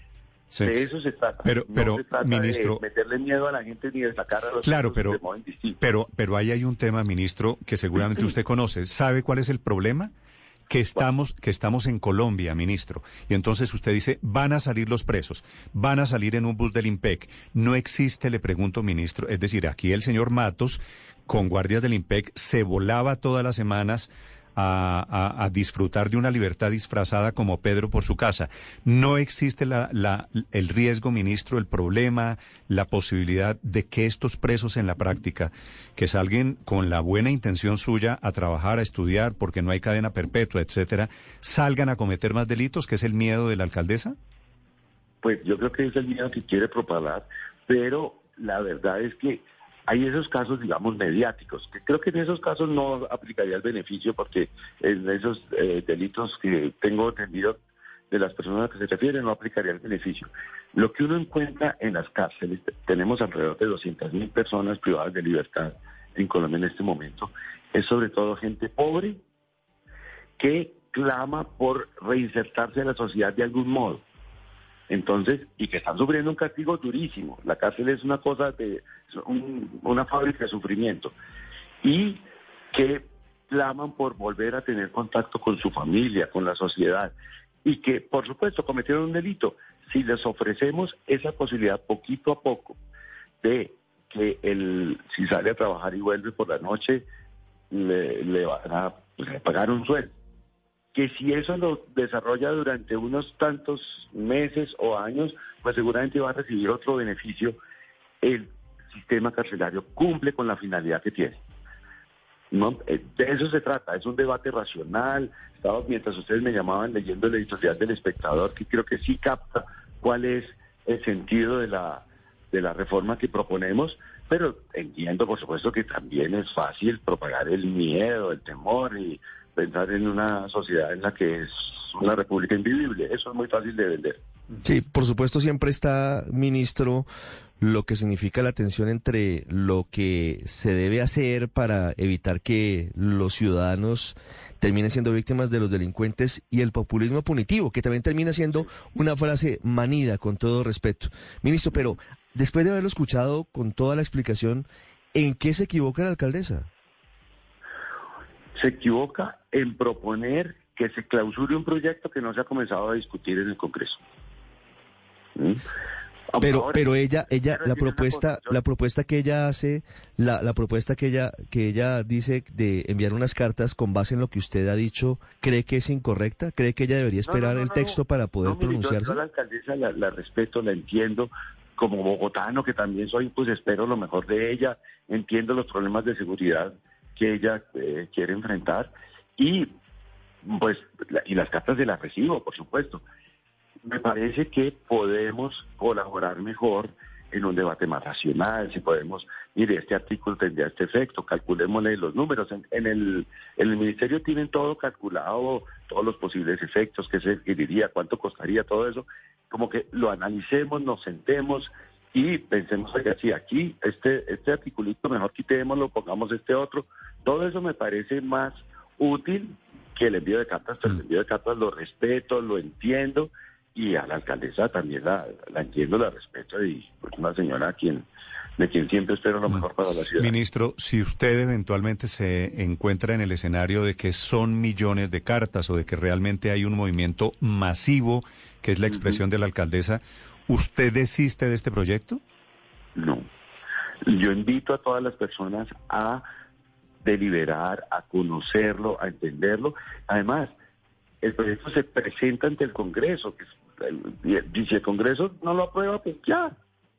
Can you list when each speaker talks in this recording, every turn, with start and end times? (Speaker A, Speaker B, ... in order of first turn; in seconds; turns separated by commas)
Speaker A: 0.5-0.8, Speaker B: 0.6-5.8, Speaker A: 1.4-2.8, Speaker A: 4.6-5.2, Speaker A: 5.8-10.1, Speaker A: 10.7-44.1, Speaker B: 45.2-57.6, Speaker B: 58.1-69.2, Speaker B: 70.4-74.0, Speaker B: 74.9-81.1, Speaker B: 81.8-87.1, Speaker B: 87.6-92.8, Speaker B: 93.4-97.0, Speaker B: 97.7-100.1, Speaker B: 100.9-107.6, Speaker B: 108.2-111.4, Speaker B: 112.5-134.2, Speaker C: 134.6-137.1, Speaker C: 137.6-156.7, Speaker B: 158.6-164.0, Speaker B: 165.3-165.6, Speaker B: 166.3-168.6, Speaker C: 166.4-179.2, Speaker B: 177.2-189.7, Speaker B: 190.4-193.0, Speaker B: 193.8-228.1, Speaker B: 228.6-230.3, Speaker A: 230.2-242.2, Speaker B: 238.9-239.2, Speaker B: 242.9-243.2, Speaker B: 244.0-246.2, Speaker B: 247.0-250.5, Speaker B: 251.2-256.5